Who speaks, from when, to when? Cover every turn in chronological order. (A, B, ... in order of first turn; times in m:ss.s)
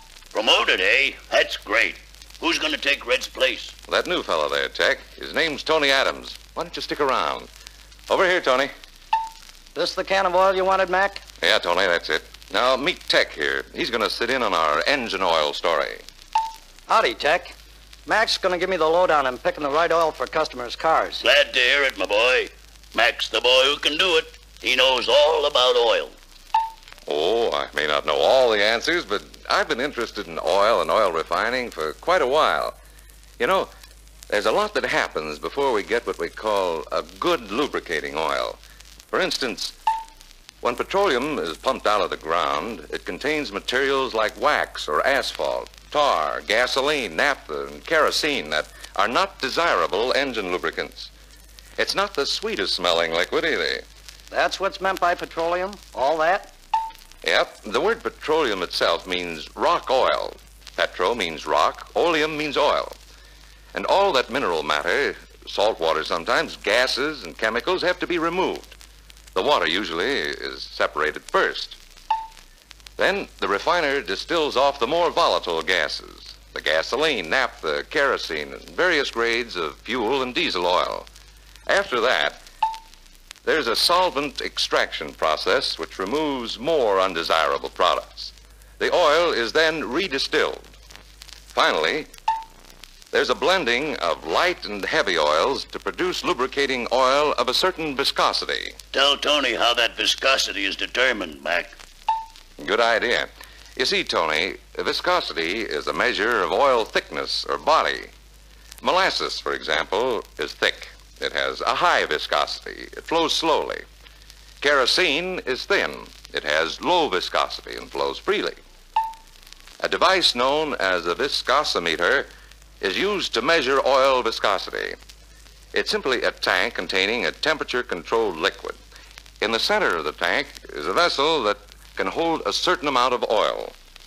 0:00.3-0:03.7 A
0:03.9-0:07.5 B
0:08.1-0:08.7 B
0:09.7-0:11.2 C
0:11.4-0:16.0 B
0:16.9-0:17.5 C
0:18.0-0:21.2 C
0:21.2-0:26.1 A
0:27.1-0:32.8 B
0:33.4-0:33.7 B
0:34.3-0:38.6 B
0:39.1-0:39.8 B
0:40.6-0:51.1 B
0:51.8-0:53.8 B
0:54.3-0:56.5 C
0:57.2-1:03.0 B
1:03.7-1:08.8 B
1:09.3-1:11.8 B
1:13.0-1:21.1 B
1:21.7-1:22.4 B
1:23.4-1:30.7 B
1:31.5-1:32.1 B
1:33.1-1:38.8 B
1:38.9-1:41.8 A
1:42.6-1:48.1 B
1:48.8-1:53.8 B
1:54.6-1:58.6 B
1:59.8-2:02.3 B
2:02.8-2:05.0 B
2:05.7-2:08.8 B
2:09.4-2:13.8 B